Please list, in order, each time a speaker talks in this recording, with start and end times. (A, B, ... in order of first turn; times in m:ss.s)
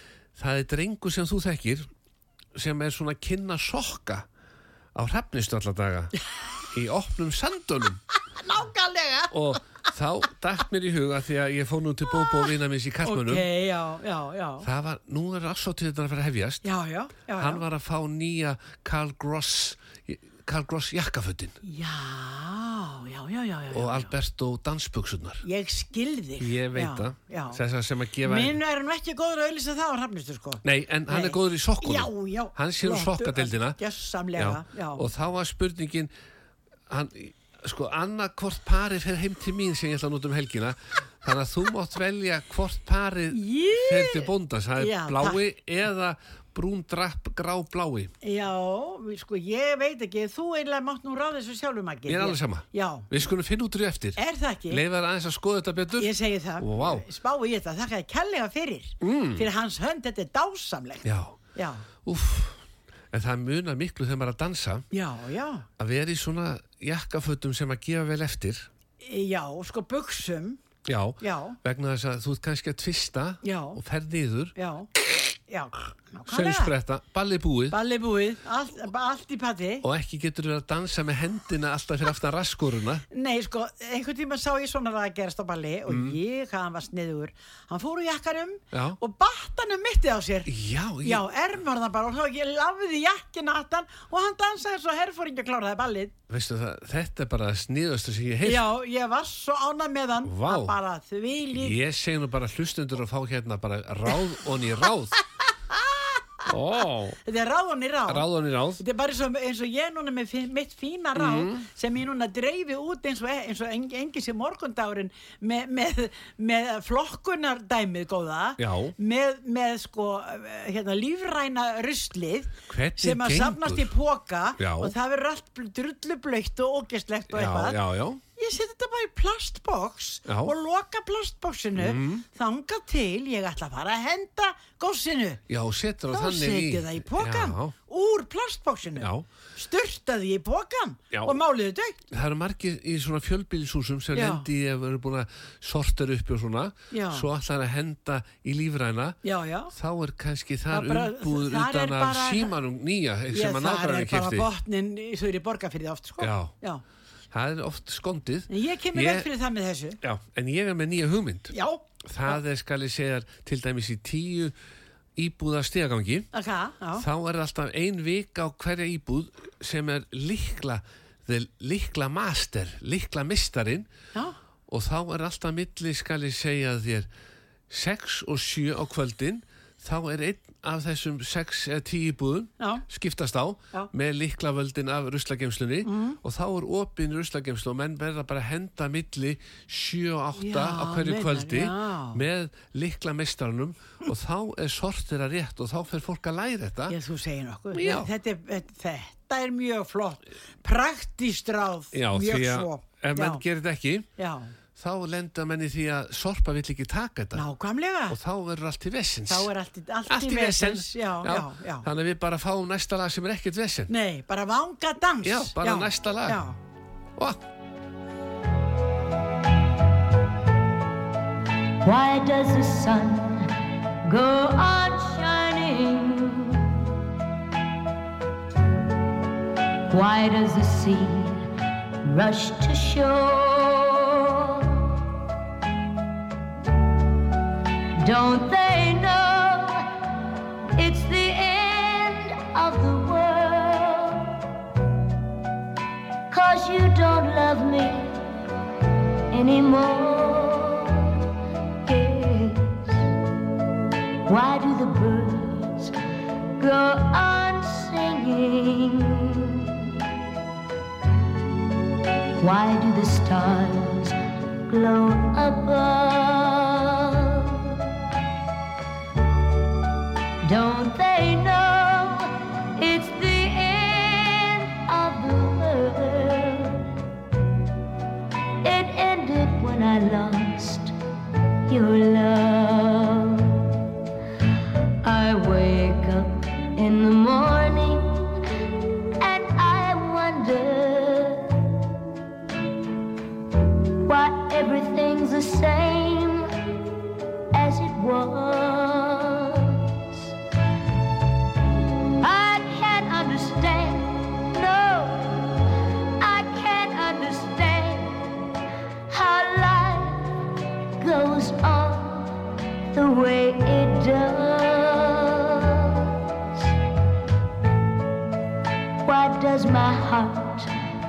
0:00.4-0:01.9 A
0:02.5-0:04.3 A
0:04.9-0:06.2 A
0:06.7-0:08.0 A
0:08.3-0:09.3 B
0:09.3-0:13.4 A
0:13.0-0:14.6 B
0:14.6-0:16.6 A
0:16.6-0:17.6 B
0:17.4-0:21.5 A
0:21.6-0:24.1 B
0:23.7-0:25.4 A
0:25.4-0:27.6 B
0:26.4-0:28.6 A
0:28.3-0:35.0 B
0:30.6-0:33.8 A
0:34.4-0:36.1 A
0:36.9-0:48.1 A
0:43.3-0:45.4 B
0:48.2-0:53.1 B
0:52.1-0:57.0 A
0:54.2-0:54.8 B
0:56.0-1:01.8 B
0:59.0-0:59.5 A
1:01.0-1:01.4 A
1:02.0-1:02.6 A
1:03.1-1:04.8 A
1:04.9-1:05.7 B
1:05.8-1:08.7 A
1:09.0-1:10.6 B
1:10.8-1:14.5 A
1:11.2-1:11.6 B
1:13.4-1:13.8 B
1:14.6-1:14.9 B
1:15.5-1:16.7 B
1:16.3-1:17.8 A
1:17.7-1:19.8 B
1:19.8-1:23.0 A
1:23.1-1:30.5 B
1:25.9-1:26.2 A
1:30.5-1:31.2 A
1:31.0-1:36.1 B
1:36.3-1:38.6 A
1:38.4-1:41.8 B
1:40.2-1:40.8 A
1:41.5-1:45.2 A
1:45.7-1:46.5 B
1:46.5-1:47.2 A
1:47.2-2:07.8 B
1:48.1-1:48.8 A
1:51.2-1:51.6 A
1:58.6-1:58.9 A
2:02.7-2:03.9 A
2:04.6-2:04.9 A
2:07.3-2:08.2 A
2:08.4-2:15.4 B
2:10.3-2:10.5 A
2:11.8-2:12.2 A
2:15.5-2:17.7 A
2:16.1-2:22.0 B
2:19.0-2:19.2 A
2:22.1-2:29.2 A
2:24.1-2:24.4 B
2:26.9-2:27.2 B
2:29.2-2:29.7 B
2:29.7-2:34.5 A
2:30.7-2:32.5 B
2:33.3-2:36.8 B
2:36.2-2:36.5 A
2:37.3-2:39.3 A
2:38.5-2:40.0 B
2:40.0-2:41.5 A
2:41.5-2:42.4 B
2:42.1-2:44.5 A
2:45.2-2:46.3 A
2:46.3-2:47.0 B
2:47.0-2:53.9 A
2:54.7-2:57.1 A
2:57.7-3:17.0 A
3:02.6-3:02.8 B
3:05.8-3:06.2 B
3:10.4-3:12.2 B
3:16.9-3:23.4 B
3:17.7-3:18.1 A
3:21.9-3:24.1 A
3:24.2-3:24.5 B
3:24.8-3:27.4 A
3:27.3-3:28.2 B
3:28.1-3:29.5 A
3:29.3-3:31.8 B
3:30.1-3:33.9 A
3:33.9-3:36.6 B
3:35.2-3:36.4 A
3:37.2-3:37.4 A
3:41.8-3:43.5 C
3:44.0-3:46.8 C
3:49.9-3:51.4 C
3:52.0-3:55.0 C
3:58.0-3:59.8 C
4:00.8-4:04.3 C
4:06.3-4:08.2 C
4:09.3-4:11.2 C
4:11.8-4:13.0 C
4:14.3-4:15.9 C
4:16.6-4:20.0 C
4:22.4-4:24.1 C
4:24.7-4:27.9 C
4:30.4-4:36.9 C
4:38.6-4:40.9 C
4:41.7-4:43.7 C
4:45.0-4:48.0 C
4:49.2-4:51.6 C
4:54.0-4:56.5 C
4:57.5-5:00.3 C
5:02.2-5:05.2 C
5:06.2-5:08.1 C
5:09.1-5:10.2 C
5:11.0-5:12.3 C
5:12.9-5:16.7 C
5:19.0-5:20.7 C